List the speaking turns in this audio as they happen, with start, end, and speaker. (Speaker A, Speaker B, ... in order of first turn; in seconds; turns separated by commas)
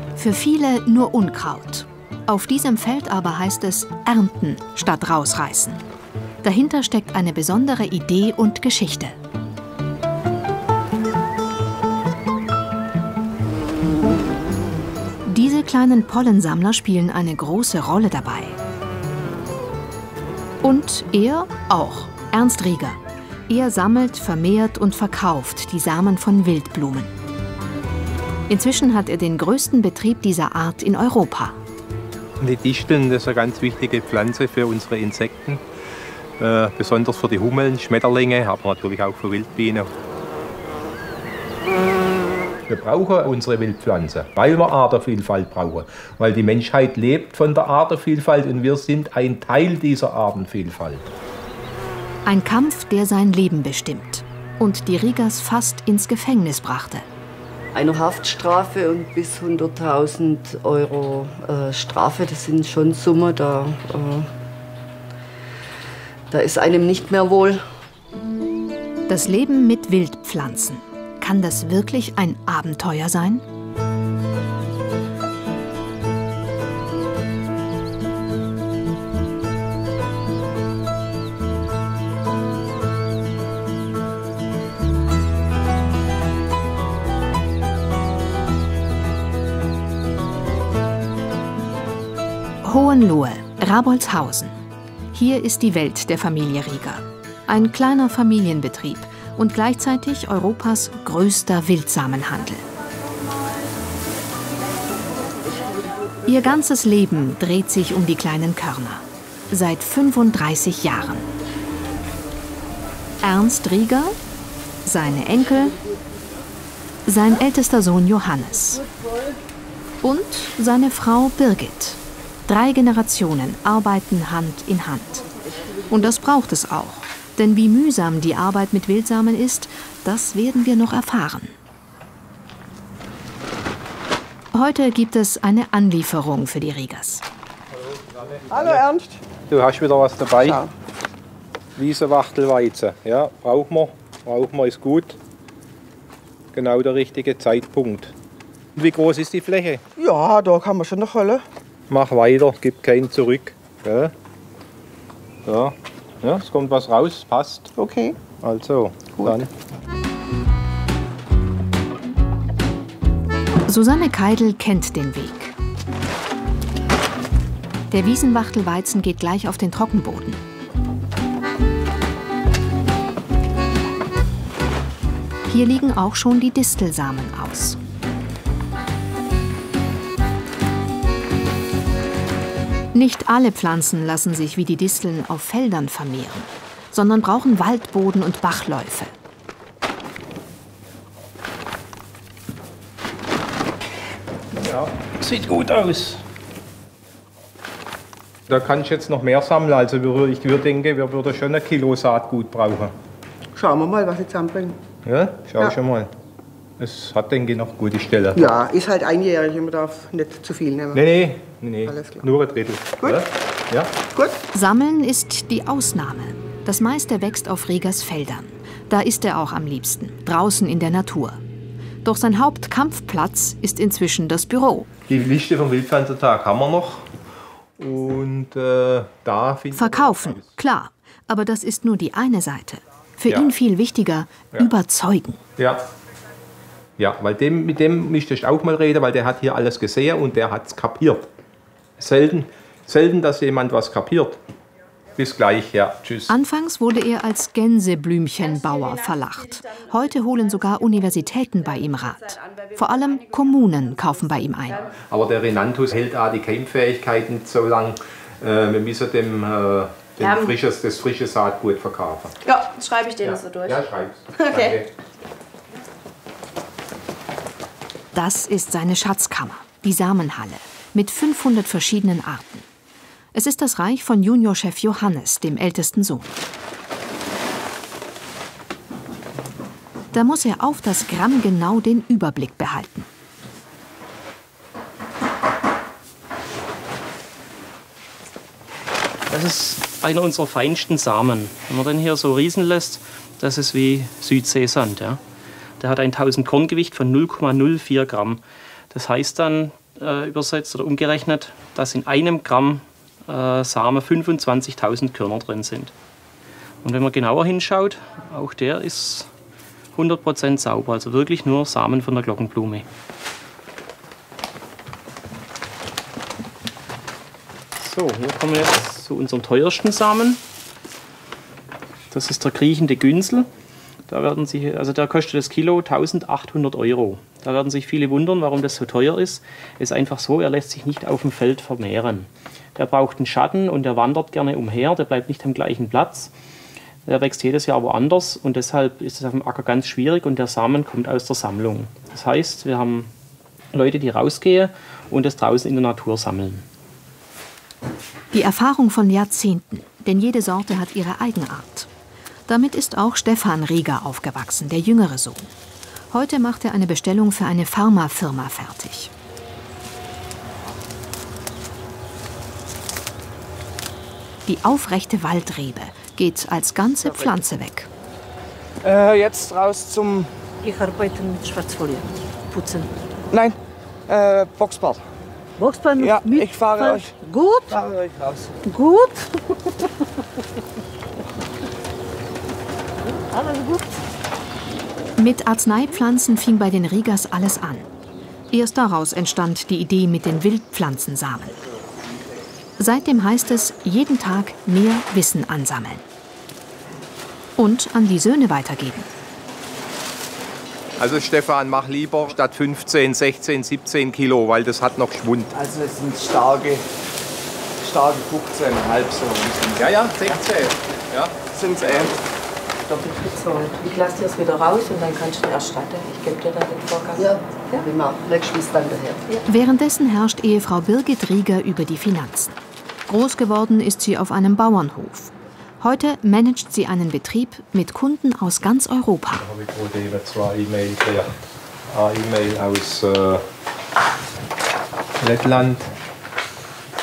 Speaker A: 0.2-5.8, Speaker A: 6.4-9.2, Speaker A: 15.2-18.6, Speaker A: 20.6-27.1, Speaker A: 28.5-31.6, Speaker B: 32.4-35.6, Speaker B: 36.4-39.9, Speaker B: 42.7-51.1, Speaker A: 52.2-57.1, Speaker C: 57.7-64.3, Speaker C: 66.3-67.6, Speaker A: 69.1-73.4, Speaker A: 92.6-94.5, Speaker A: 95.1-102.7, Speaker A: 106.3-111.3, Speaker A: 113.2-114.2, Speaker A: 114.8-115.8, Speaker A: 117.1-118.8, Speaker A: 120.0-125.3, Speaker A: 125.9-131.6, Speaker A: 134.5-137.2, Speaker D: 138.5-139.1, Speaker B: 139.5-140.6, Speaker D: 140.4-140.7, Speaker B: 141.8-145.2, Speaker B: 146.5-148.1, Speaker B: 148.8-149.8, Speaker D: 150.0-151.4, Speaker B: 151.9-154.1, Speaker B: 155.4-157.7, Speaker D: 157.8-158.2, Speaker B: 158.3-159.5, Speaker A: 163.7-165.6, Speaker A: 167.9-170.4, Speaker A: 175.5-177.8, Speaker A: 182.9-189.1, Speaker B: 194.6-196.2, Speaker B: 198.5-202.9, Speaker D: 203.6-204.8, Speaker B: 205.1-206.1, Speaker B: 206.8-208.5, Speaker D: 208.3-211.0, Speaker B: 210.9-213.9, Speaker D: 211.8-212.2, Speaker A: 214.5-221.4, Speaker A: 222.1-224.9, Speaker B: 225.1-227.1, Speaker B: 227.8-230.5, Speaker A: 229.7-235.4, Speaker B: 235.6-235.8, Speaker B: 237.0-241.3, Speaker B: 242.0-244.4, Speaker B: 245.2-246.3, Speaker A: 246.3-254.9, Speaker B: 255.1-262.4, Speaker E: 260.2-260.6, Speaker E: 262.4-263.8, Speaker B: 263.2-264.9, Speaker E: 264.4-264.8, Speaker A: 268.1-272.7, Speaker A: 273.3-276.3, Speaker A: 280.1-283.1, Speaker F: 289.3-295.2, Speaker F: 295.8-305.9, Speaker F: 306.8-309.3, Speaker F: 309.9-312.9, Speaker F: 317.8-320.4, Speaker F: 322.1-323.5, Speaker F: 324.1-336.3, Speaker F: 337.1-343.1, Speaker F: 343.7-346.6, Speaker A: 348.3-351.9, Speaker A: 352.5-355.5, Speaker A: 356.1-359.1, Speaker A: 364.5-367.9, Speaker G: 368.8-370.3, Speaker E: 370.6-372.9, Speaker G: 373.3-373.6, Speaker G: 374.1-375.0, Speaker E: 375.6-377.8, Speaker G: 376.0-377.1, Speaker G: 377.9-378.5, Speaker E: 378.6-379.2, Speaker E: 383.3-383.9, Speaker A: 385.2-387.9, Speaker A: 388.5-391.6, Speaker A: 392.8-396.1, Speaker A: 397.6-399.1, Speaker B: 401.0-405.5, Speaker G: 405.5-406.9, Speaker G: 407.8-409.9, Speaker B: 409.8-411.3, Speaker G: 411.5-412.2, Speaker E: 412.9-417.9, Speaker C: 417.2-419.3, Speaker A: 419.5-429.5, Speaker B: 429.4-431.3, Speaker B: 431.9-433.4, Speaker B: 435.2-435.9